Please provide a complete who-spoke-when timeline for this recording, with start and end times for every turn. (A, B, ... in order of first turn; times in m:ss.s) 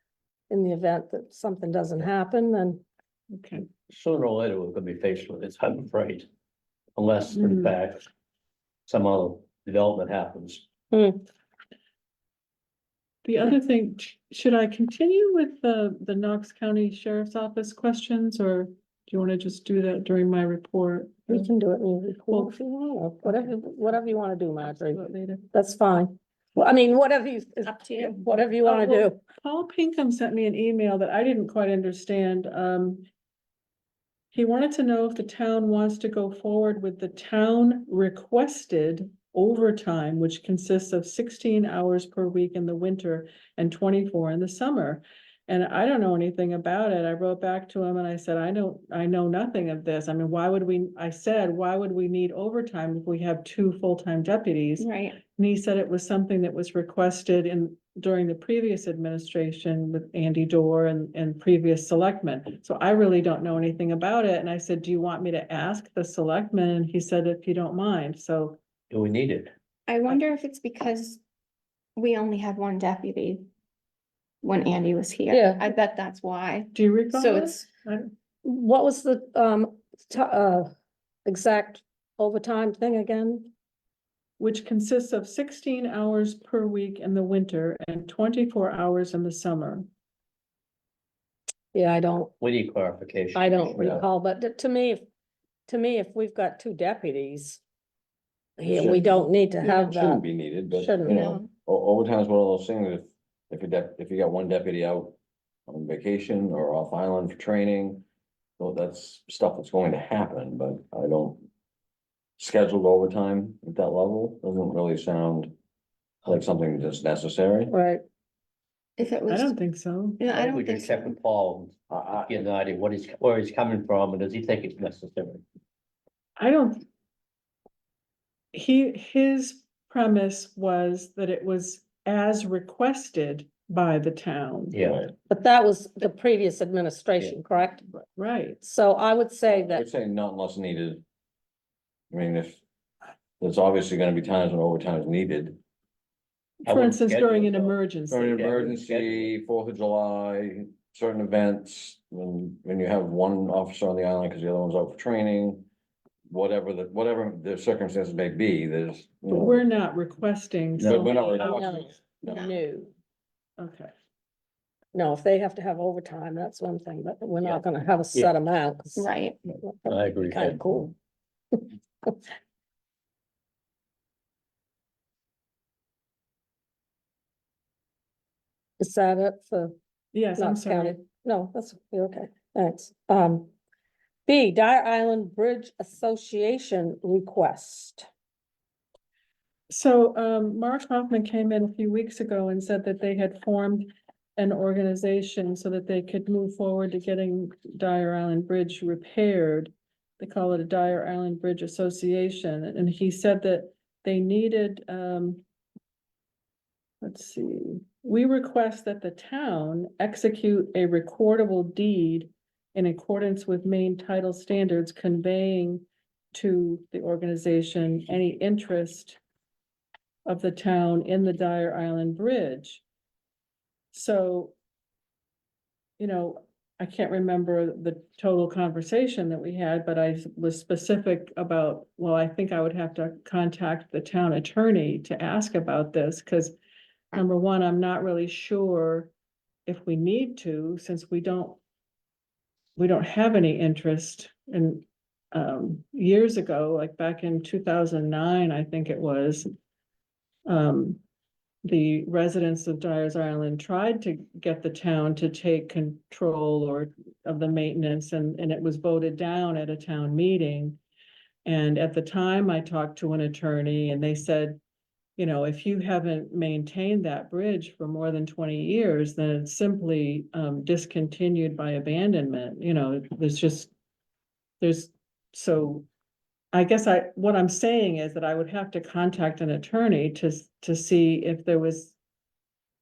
0:00.5-0:02.8 A
0:03.3-0:03.7 B
0:03.9-0:06.3 C
0:07.0-0:08.0 C
0:07.3-0:07.7 B
0:08.9-0:10.6 C
0:10.9-0:11.2 A
0:13.2-0:21.5 B
0:21.3-0:25.0 A
0:22.3-0:22.6 B
0:23.2-0:23.6 B
0:24.6-0:25.5 B
0:25.5-0:29.2 A
0:28.6-0:33.0 B
0:34.3-1:08.6 B
0:54.8-0:55.2 D
1:08.9-1:09.5 C
1:09.9-1:11.2 D
1:12.0-1:13.5 D
1:14.4-1:17.7 D
1:15.3-1:15.7 A
1:16.7-1:18.1 B
1:18.4-1:20.7 A
1:21.3-1:23.5 A
1:24.4-1:29.9 B
1:31.7-1:32.3 A
1:32.4-1:34.0 C
1:33.4-1:35.0 A
1:35.7-1:37.6 A
1:38.6-1:41.3 A
1:38.7-1:45.2 E
1:41.1-1:41.5 D
1:45.7-1:48.0 E
1:48.6-1:51.5 E
1:52.4-1:55.5 E
1:56.3-1:57.7 E
1:57.7-1:58.0 A
1:59.0-1:59.6 D
1:59.3-2:00.2 B
2:00.2-2:01.2 D
2:00.3-2:05.4 C
2:01.9-2:02.4 E
2:06.4-2:06.8 B
2:08.5-2:14.8 B
2:14.7-2:15.0 C
2:14.8-2:15.1 E
2:15.3-2:17.9 A
2:17.9-2:18.6 B
2:18.6-2:19.8 A
2:19.5-2:21.0 E
2:22.1-2:22.6 E
2:23.4-2:25.6 E
2:26.6-2:28.4 B
2:26.6-2:29.3 C
2:28.1-2:35.7 E
2:36.3-2:39.6 E
2:39.3-2:41.6 B
2:40.8-2:41.2 C
2:40.8-2:42.5 E
2:41.4-2:42.9 A
2:43.6-2:43.9 B
2:44.9-2:50.9 A
2:49.0-2:49.4 D
2:49.8-2:50.6 C
2:51.5-2:52.1 A
2:58.8-2:59.8 A
3:00.1-3:01.1 B
3:00.4-3:03.5 A
3:04.3-3:08.1 A
3:09.7-3:25.4 B
3:27.0-3:39.2 B
3:40.3-3:42.8 B
3:43.9-3:44.6 B
3:46.0-3:56.6 B
3:57.1-3:59.1 B
3:59.7-4:01.6 B
4:02.8-4:09.5 B
4:10.5-4:11.0 B
4:11.6-4:20.8 B
4:21.4-4:24.6 B
4:25.2-4:33.7 B
4:34.6-4:35.9 B
4:36.5-4:42.0 B